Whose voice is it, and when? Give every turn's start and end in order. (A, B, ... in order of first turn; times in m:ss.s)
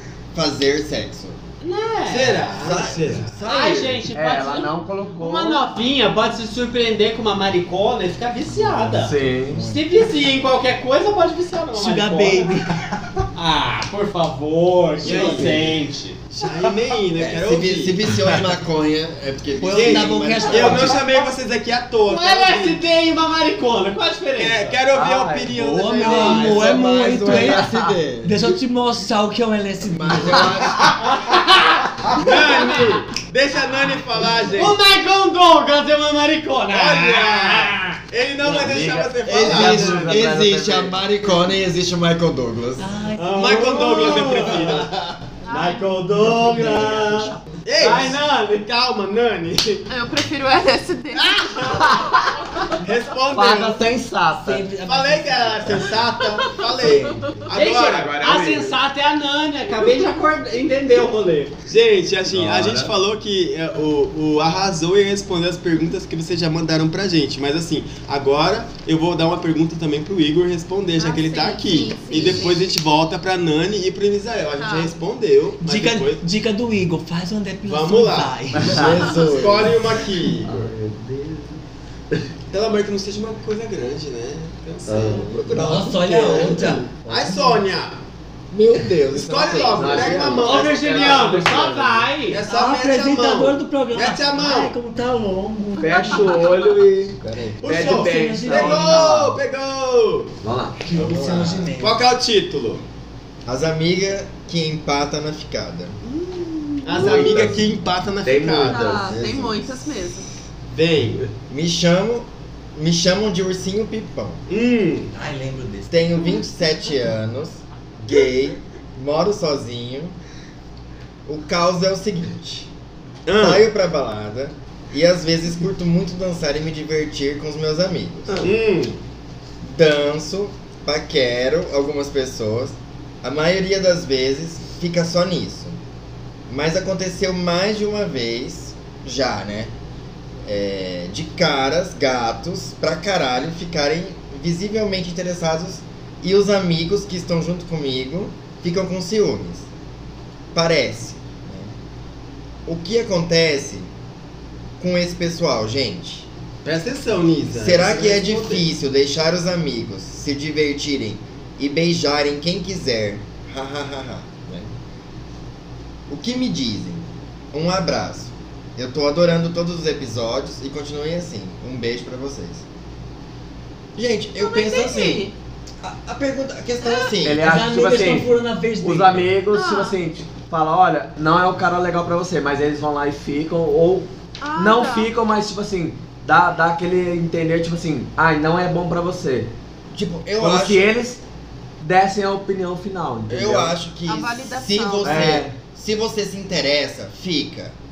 0:00.3-0:01.4 A
0:01.6-0:02.6 B
0:02.1-0:03.4 C
0:02.5-0:04.1 A
0:03.4-0:12.5 B
0:04.1-0:05.6 D
0:08.9-0:09.6 D
0:09.5-0:09.8 A
0:11.8-0:12.7 E
0:13.3-0:16.2 B
0:15.0-0:15.7 C
0:15.0-0:15.7 D
0:16.3-0:18.0 C
0:17.3-0:21.0 A
0:19.6-0:21.0 E
0:19.7-0:22.8 C
0:22.1-0:24.8 B
0:24.4-0:27.0 C
0:24.9-0:28.0 D
0:25.5-0:27.7 E
0:26.1-0:26.6 B
0:26.4-0:28.6 A
0:28.2-0:30.6 E
0:29.8-0:31.3 A
0:31.0-0:33.0 B
0:32.2-0:34.8 C
0:34.6-0:38.0 B
0:36.7-0:40.2 C
0:38.4-0:41.0 D
0:39.3-0:42.9 A
0:42.8-0:44.4 E
0:43.2-0:44.9 C
0:43.2-0:44.8 B
0:44.3-0:44.9 A
0:45.4-0:45.9 F
0:45.5-0:48.6 B
0:46.4-0:47.2 E
0:47.6-0:49.8 C
0:49.9-0:52.4 F
0:51.6-0:52.1 B
0:52.8-0:53.8 C
0:53.3-0:54.6 D
0:54.4-0:56.0 E
0:54.8-0:58.7 C
0:56.8-0:57.2 E
0:57.5-1:01.6 B
0:58.2-0:58.7 D
1:01.7-1:16.3 C
1:02.3-1:02.9 D
1:11.0-1:12.7 F
1:14.6-1:14.9 F
1:15.6-1:18.9 E
1:17.6-1:20.7 C
1:18.6-1:19.6 D
1:18.7-1:19.7 A
1:20.4-1:21.6 D
1:22.5-1:28.0 C
1:24.9-1:27.3 D
1:25.5-1:27.1 A
1:25.5-1:26.8 E
1:28.5-1:30.4 A
1:29.1-1:31.5 C
1:29.4-1:32.1 D
1:30.3-1:32.4 B
1:32.3-1:34.8 C
1:32.5-1:36.6 E
1:35.8-1:39.4 D
1:35.8-1:36.7 F
1:37.2-1:37.6 A
1:37.6-1:40.4 C
1:37.7-1:39.2 E
1:40.4-1:41.5 D
1:40.8-1:42.0 E
1:41.8-1:42.8 C
1:43.5-1:46.0 A
1:46.8-1:48.9 C
1:47.0-1:47.6 D
1:47.0-1:47.7 A
1:48.2-1:49.2 D
1:48.6-1:50.3 F
1:49.0-1:50.0 A
1:50.7-1:51.3 C
1:51.5-1:54.4 A
1:54.5-1:55.1 C
1:55.1-1:56.0 E
1:55.9-2:00.2 A
2:01.3-2:02.7 A
2:03.3-2:03.7 C
2:03.4-2:08.5 A
2:08.4-2:09.0 C
2:09.6-2:15.8 A
2:16.5-2:19.7 A
2:20.4-2:29.6 A
2:30.5-2:31.7 A
2:32.7-2:33.9 A
2:34.8-2:36.3 A
2:36.6-2:38.7 C
2:37.5-2:44.7 A
2:46.1-2:52.6 A
2:54.0-2:55.3 A
2:54.4-2:55.3 F
2:55.8-2:57.5 A
2:56.8-2:57.1 F
2:57.2-3:09.5 D
2:57.4-2:59.3 E
2:59.5-3:00.0 F
3:04.4-3:05.1 F
3:09.9-3:11.0 A
3:10.4-3:11.2 D
3:11.8-3:13.8 D
3:13.3-3:17.7 A
3:14.1-3:15.4 F
3:15.0-3:15.6 D